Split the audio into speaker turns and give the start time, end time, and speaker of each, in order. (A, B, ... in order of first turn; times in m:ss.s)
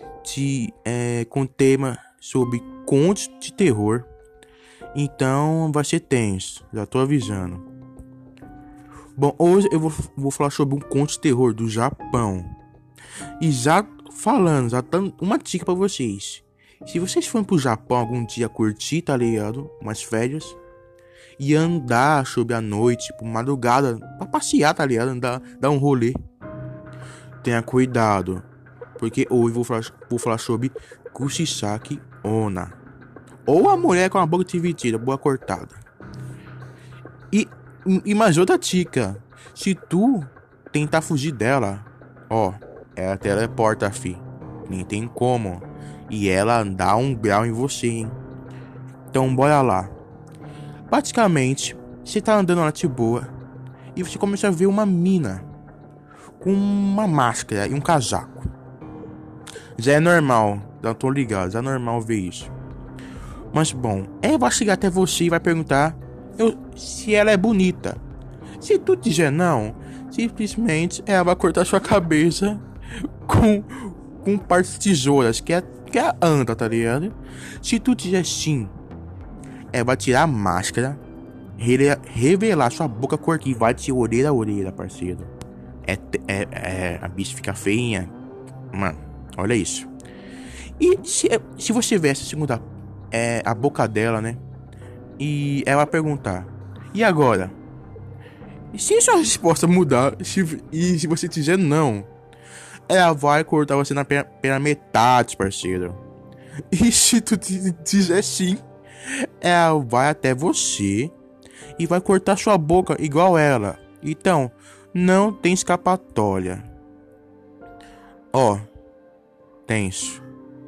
0:00.2-0:04.1 A
0:04.9-0:07.6 A
0:09.2-0:12.6 A
0:13.4-0:20.6 A
0:21.4-0:26.2 A
0:27.4-0:28.5 A
0:29.0-0:32.8 A
0:33.5-0:35.8 A
0:37.3-0:48.2 A
0:49.1-0:49.9 A
0:50.9-0:53.3 A
0:54.0-0:55.5 A
0:56.4-0:58.5 A
0:59.8-1:02.5 A
1:03.5-1:08.0 A
1:08.6-1:18.8 A
1:19.7-1:21.0 A
1:21.6-1:25.3 A
1:25.8-1:28.2 A
1:28.7-1:29.9 A
1:30.8-1:34.4 A
1:35.2-1:37.6 A
1:38.7-1:42.1 A
1:42.9-1:46.0 A
1:46.7-1:51.2 A
1:51.8-1:56.7 A
1:58.3-1:58.6 A
1:59.7-2:00.2 A